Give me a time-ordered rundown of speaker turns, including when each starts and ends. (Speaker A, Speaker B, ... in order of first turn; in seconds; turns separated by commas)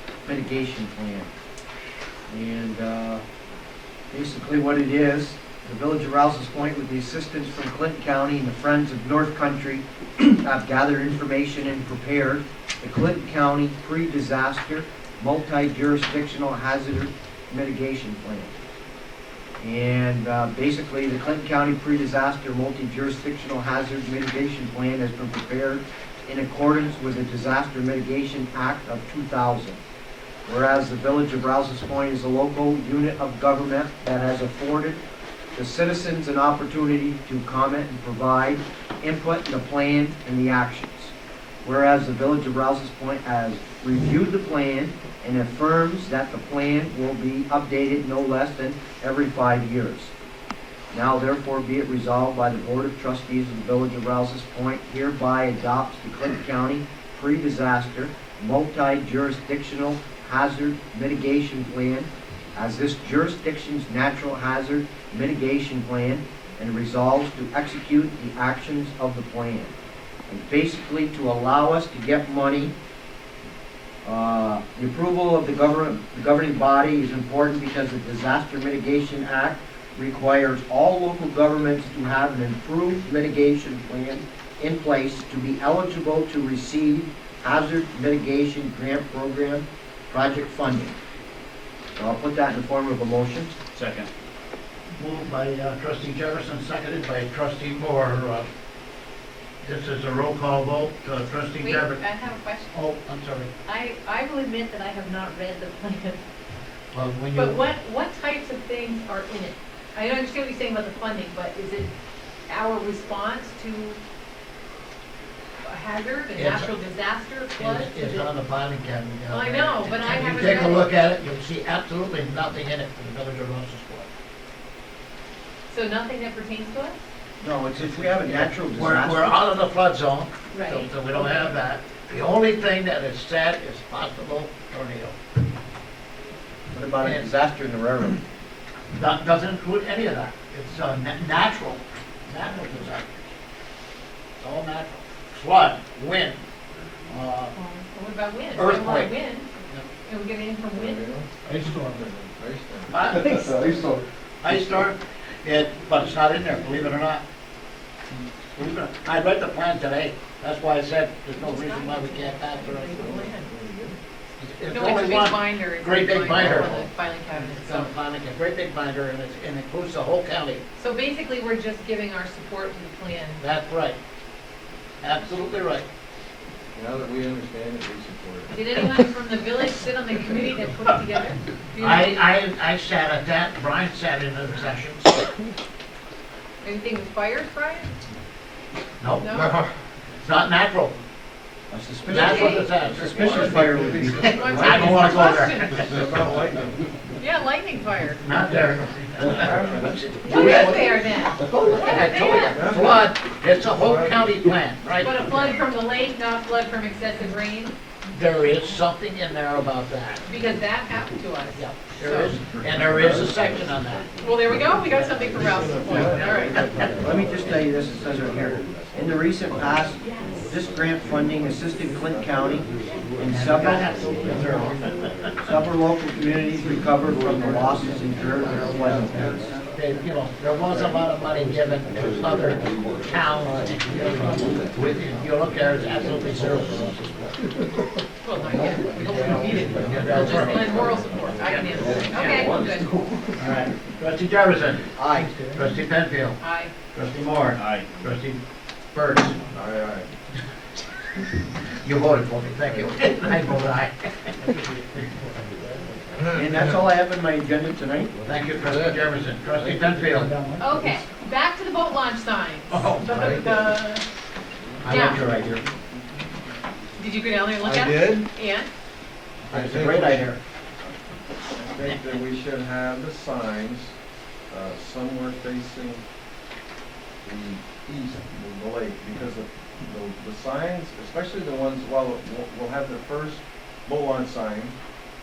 Speaker A: 0.3-1.3, Speaker A: 2.3-3.2, Speaker A: 4.1-18.6, Speaker A: 19.6-29.8, Speaker A: 30.5-35.0, Speaker A: 35.6-50.1, Speaker A: 50.9-69.7, Speaker A: 70.3-72.8, Speaker A: 74.0-91.0, Speaker A: 92.0-93.5, Speaker B: 95.0-98.5, Speaker B: 99.6-102.0, Speaker C: 101.6-102.7, Speaker B: 102.7-103.5, Speaker C: 103.7-106.2, Speaker B: 106.9-107.6, Speaker C: 107.3-111.9, Speaker C: 112.5-114.0, Speaker C: 115.7-118.3, Speaker B: 116.3-116.7, Speaker B: 117.6-124.1, Speaker C: 119.3-120.9, Speaker C: 125.7-127.0, Speaker A: 127.4-129.4, Speaker B: 128.0-135.2, Speaker C: 130.5-131.5, Speaker A: 136.7-138.2, Speaker B: 137.0-137.3, Speaker B: 138.9-143.3, Speaker B: 144.4-146.4, Speaker B: 147.1-147.6, Speaker C: 147.6-149.5, Speaker B: 148.6-149.1, Speaker C: 150.0-151.0, Speaker D: 150.7-154.0, Speaker B: 152.9-153.9, Speaker B: 154.4-157.2, Speaker B: 158.6-163.2, Speaker C: 161.4-163.5, Speaker D: 162.9-164.0, Speaker B: 164.4-170.6, Speaker C: 164.7-167.9, Speaker C: 170.8-173.4, Speaker B: 173.4-174.0, Speaker B: 175.0-175.8, Speaker D: 176.8-178.6, Speaker C: 178.5-182.2, Speaker B: 181.8-185.3, Speaker C: 186.6-187.9, Speaker B: 189.0-189.5, Speaker C: 189.2-189.6, Speaker D: 189.4-189.7, Speaker B: 190.2-191.0, Speaker A: 191.7-194.6, Speaker B: 192.1-196.1, Speaker C: 192.1-192.7, Speaker D: 193.0-196.7, Speaker C: 194.1-195.8, Speaker C: 197.2-198.2, Speaker B: 198.2-205.6, Speaker D: 199.2-199.9, Speaker C: 200.2-202.8, Speaker D: 202.5-203.0, Speaker D: 203.7-204.2, Speaker C: 205.0-207.8, Speaker B: 208.1-210.2, Speaker C: 210.2-212.4, Speaker B: 211.5-214.1, Speaker C: 214.2-216.6, Speaker B: 214.9-215.4, Speaker B: 215.9-216.9, Speaker A: 217.0-222.7, Speaker C: 220.0-220.5, Speaker A: 223.2-223.9, Speaker B: 223.2-225.5, Speaker A: 225.4-229.4, Speaker B: 229.0-237.1, Speaker C: 238.2-242.9, Speaker B: 239.2-240.8, Speaker B: 241.4-241.8, Speaker D: 241.9-242.7, Speaker B: 243.4-246.4, Speaker A: 245.0-245.3, Speaker C: 246.4-246.7, Speaker B: 246.9-248.4, Speaker B: 248.9-249.4, Speaker D: 249.5-250.1, Speaker B: 251.8-254.0, Speaker A: 256.3-258.1, Speaker B: 258.2-260.4, Speaker D: 258.7-259.0, Speaker C: 260.6-264.0, Speaker B: 262.7-263.5, Speaker D: 263.1-263.5, Speaker B: 264.8-265.6, Speaker C: 264.9-265.2, Speaker C: 267.0-268.7, Speaker D: 267.6-268.3, Speaker B: 269.5-270.3, Speaker D: 269.5-270.1, Speaker A: 269.5-270.4, Speaker D: 271.5-273.9, Speaker D: 274.5-276.0, Speaker D: 277.2-284.8